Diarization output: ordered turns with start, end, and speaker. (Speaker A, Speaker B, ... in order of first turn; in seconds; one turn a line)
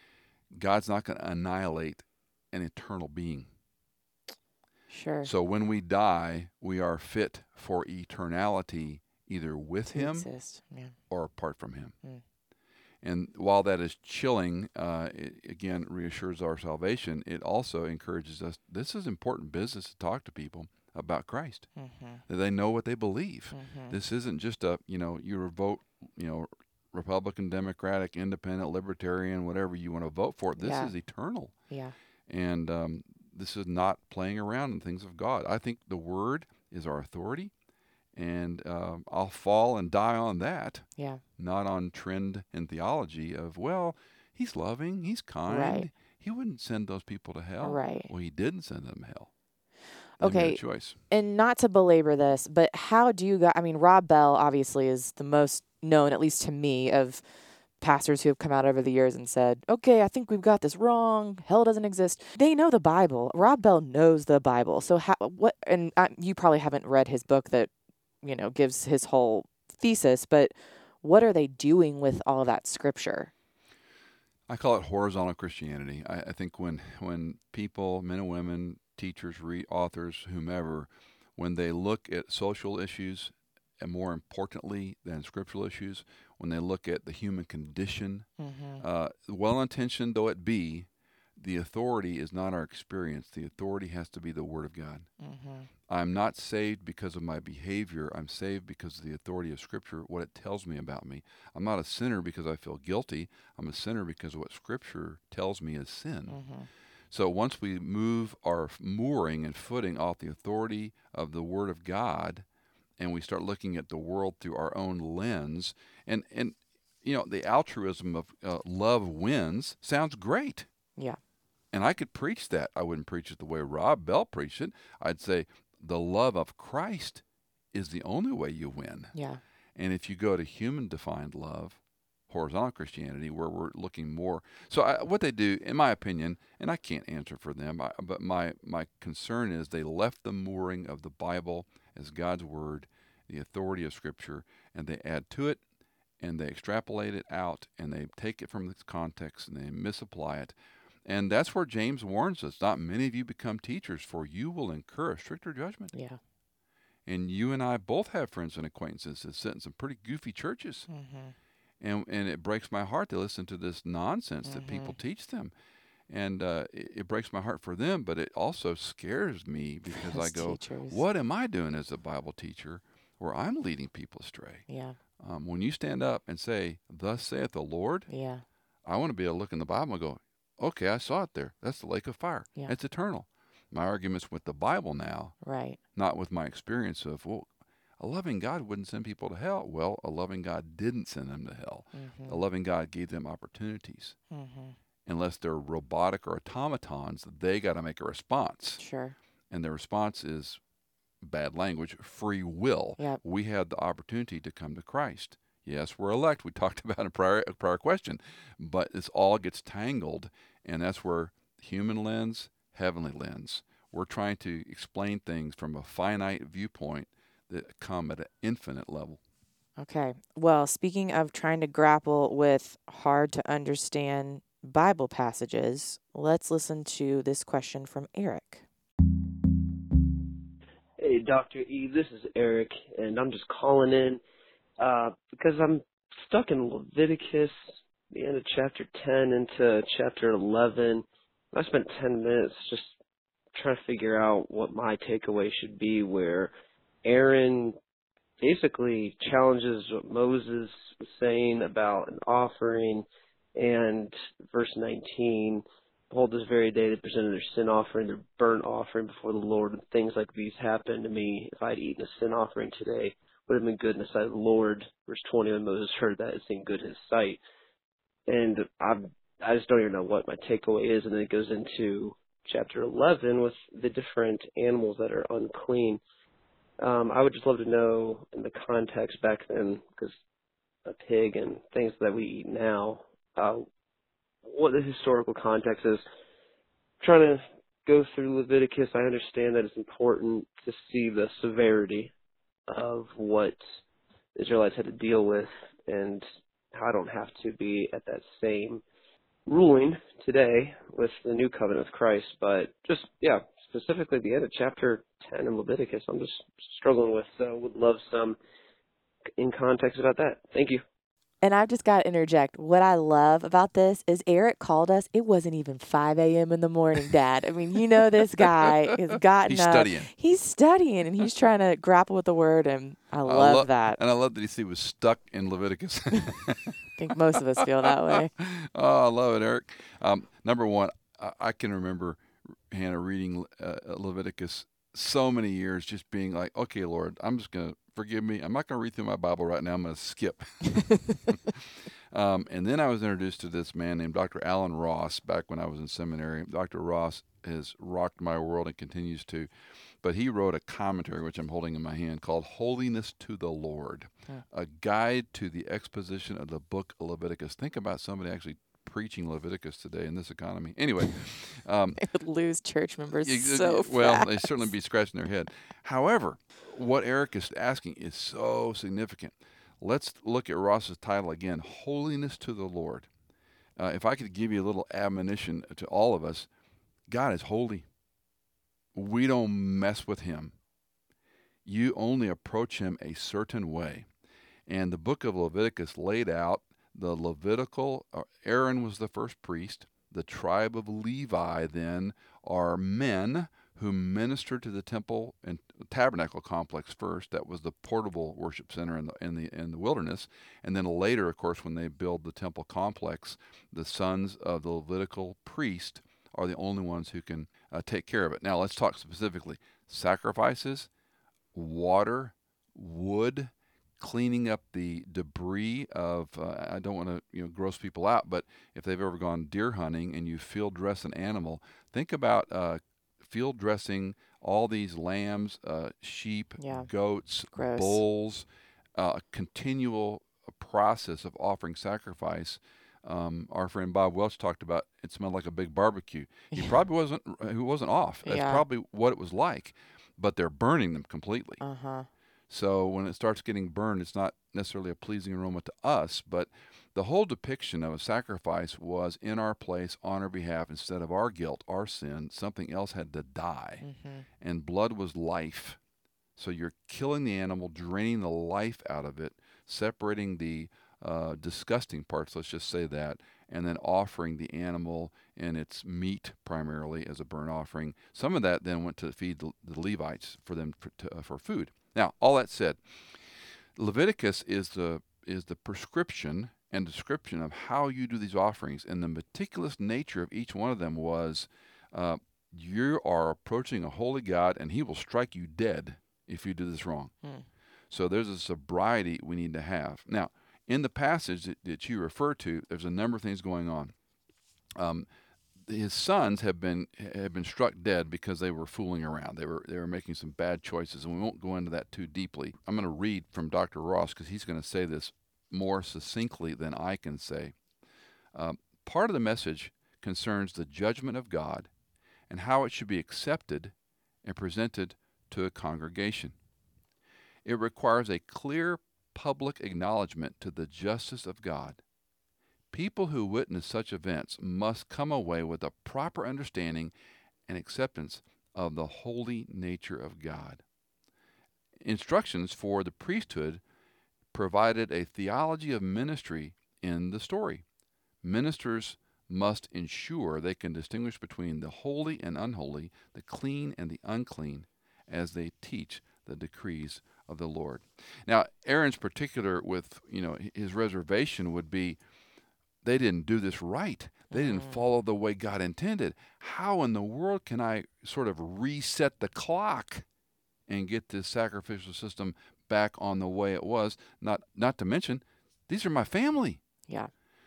Speaker A: 0.5-3.5
Speaker B: 4.9-5.3
Speaker A: 5.2-10.3
Speaker B: 9.9-10.9
Speaker A: 11.1-11.9
Speaker A: 13.0-21.7
Speaker B: 21.8-22.2
Speaker A: 22.3-31.5
Speaker B: 23.5-24.0
Speaker B: 30.6-30.9
Speaker B: 31.7-31.9
Speaker A: 32.3-37.5
Speaker A: 38.1-40.9
Speaker A: 41.4-49.3
Speaker B: 45.5-45.9
Speaker B: 47.6-48.1
Speaker A: 50.2-51.0
Speaker B: 50.2-57.2
Speaker B: 57.8-67.7
Speaker B: 68.2-73.3
Speaker A: 74.5-88.3
Speaker B: 88.4-88.8
Speaker A: 88.8-95.1
Speaker B: 95.2-95.7
Speaker A: 95.9-106.4
Speaker B: 106.3-106.7
Speaker A: 107.1-112.5
Speaker A: 113.0-120.7
Speaker A: 121.7-127.2
Speaker A: 127.7-129.1
Speaker B: 129.1-129.4
Speaker A: 129.8-145.6
Speaker A: 146.2-155.9
Speaker B: 155.9-156.2
Speaker A: 157.1-160.9
Speaker B: 160.9-161.3
Speaker A: 161.8-165.5
Speaker B: 164.4-165.0
Speaker A: 166.1-174.7
Speaker B: 169.9-171.0
Speaker B: 174.7-175.0
Speaker A: 175.2-178.1
Speaker B: 178.1-178.4
Speaker A: 178.8-185.3
Speaker B: 185.4-185.8
Speaker A: 185.9-194.2
Speaker B: 191.9-192.4
Speaker B: 194.3-194.8
Speaker A: 195.1-198.8
Speaker B: 198.8-199.2
Speaker A: 199.5-200.6
Speaker A: 201.2-219.2
Speaker B: 219.8-228.7
Speaker C: 231.0-234.2
Speaker C: 234.8-237.6
Speaker C: 238.1-243.0
Speaker C: 243.6-246.5
Speaker C: 247.1-247.8
Speaker C: 248.4-267.4
Speaker C: 268.3-276.0
Speaker C: 276.8-280.2
Speaker C: 280.9-283.6
Speaker C: 284.4-286.0
Speaker C: 287.0-292.1
Speaker C: 292.7-293.6
Speaker C: 294.4-298.8
Speaker C: 299.5-308.4
Speaker C: 309.4-310.8
Speaker B: 311.4-324.0
Speaker A: 318.2-318.9
Speaker A: 319.4-320.1
Speaker A: 323.2-326.8
Speaker B: 327.0-328.3
Speaker A: 327.3-349.5
Speaker A: 350.0-362.0
Speaker B: 362.0-364.7
Speaker A: 363.1-373.1
Speaker A: 373.8-376.5
Speaker A: 377.1-377.9
Speaker A: 378.9-380.6
Speaker A: 381.6-384.1
Speaker A: 384.7-410.9
Speaker A: 411.5-441.6
Speaker B: 426.6-426.9
Speaker B: 427.5-428.0
Speaker B: 436.5-436.8
Speaker B: 438.2-438.6
Speaker B: 441.6-442.1
Speaker A: 442.5-453.8
Speaker B: 453.8-454.3
Speaker A: 454.4-455.8
Speaker A: 456.4-472.8
Speaker A: 473.8-487.1
Speaker A: 487.9-493.9
Speaker A: 494.8-495.1
Speaker A: 495.6-507.6
Speaker A: 508.3-511.7
Speaker A: 512.3-516.4
Speaker A: 517.5-521.8
Speaker A: 522.7-526.9
Speaker A: 527.5-530.6
Speaker A: 531.8-533.6
Speaker A: 534.3-537.6
Speaker A: 538.2-552.0
Speaker A: 552.8-560.1
Speaker B: 554.3-554.8
Speaker A: 560.7-566.6